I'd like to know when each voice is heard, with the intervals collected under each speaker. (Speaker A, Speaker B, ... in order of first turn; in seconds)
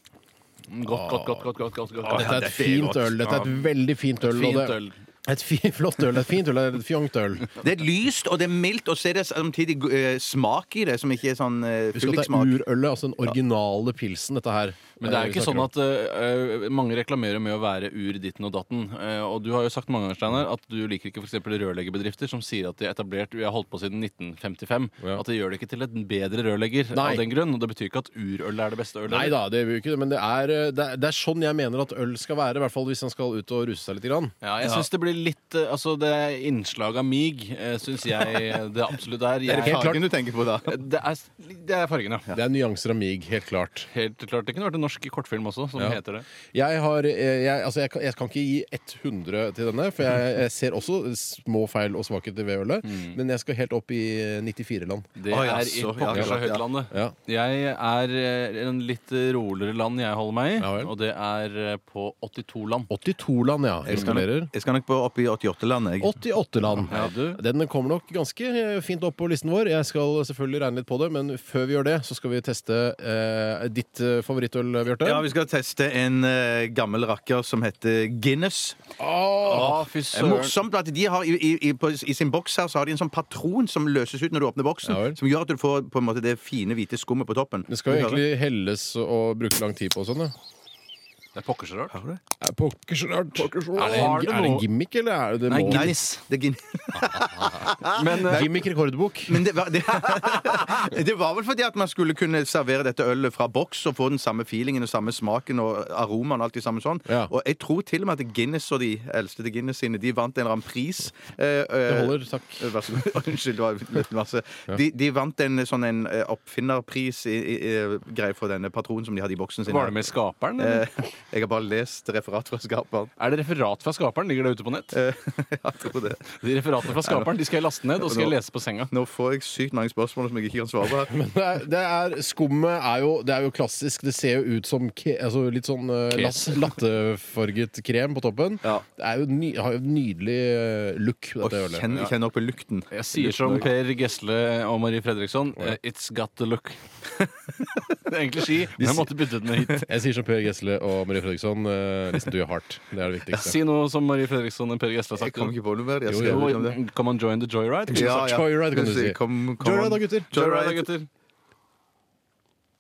Speaker A: 0.7-2.5, 3.2-3.5, 4.2-5.0, 15.0-29.3, 34.4-39.8, 40.6-42.3, 43.9-46.2, 52.8-53.2, 55.2-62.9, 66.9-67.4, 79.4-80.5, 91.3-91.9, 93.8-94.7, 95.5-96.2, 97.8-98.5, 119.7-120.8, 123.2-125.0, 126.3-128.9, 136.1-136.7, 142.9-147.1, 148.0-149.8, 153.3-155.5, 156.1-158.3, 160.3-161.1
Speaker B: 0.9-1.4, 2.0-7.5, 11.9-15.7, 26.9-27.2, 29.1-34.3, 39.6-40.0, 42.3-43.9, 45.8-55.1, 56.1-56.4, 56.9-57.1, 60.6-60.9, 62.9-64.5, 66.0-75.3, 79.0-79.9, 84.8-85.2, 87.7-90.3, 92.4-95.9, 96.9-97.7, 98.2-100.8, 107.1-107.3, 111.8-113.0, 131.1-141.9, 149.8-153.6, 156.1-156.6, 157.9-160.3
Speaker C: 2.1-3.2, 7.6-12.6, 34.6-34.9, 39.5-40.8, 55.3-56.6, 63.9-66.1, 75.0-78.8, 80.1-88.2, 91.9-92.2, 95.7-98.6, 99.3-123.1, 124.9-126.3, 126.9-127.3, 128.0-128.3, 128.9-131.1, 141.4-143.7, 155.2-156.8, 157.9-160.9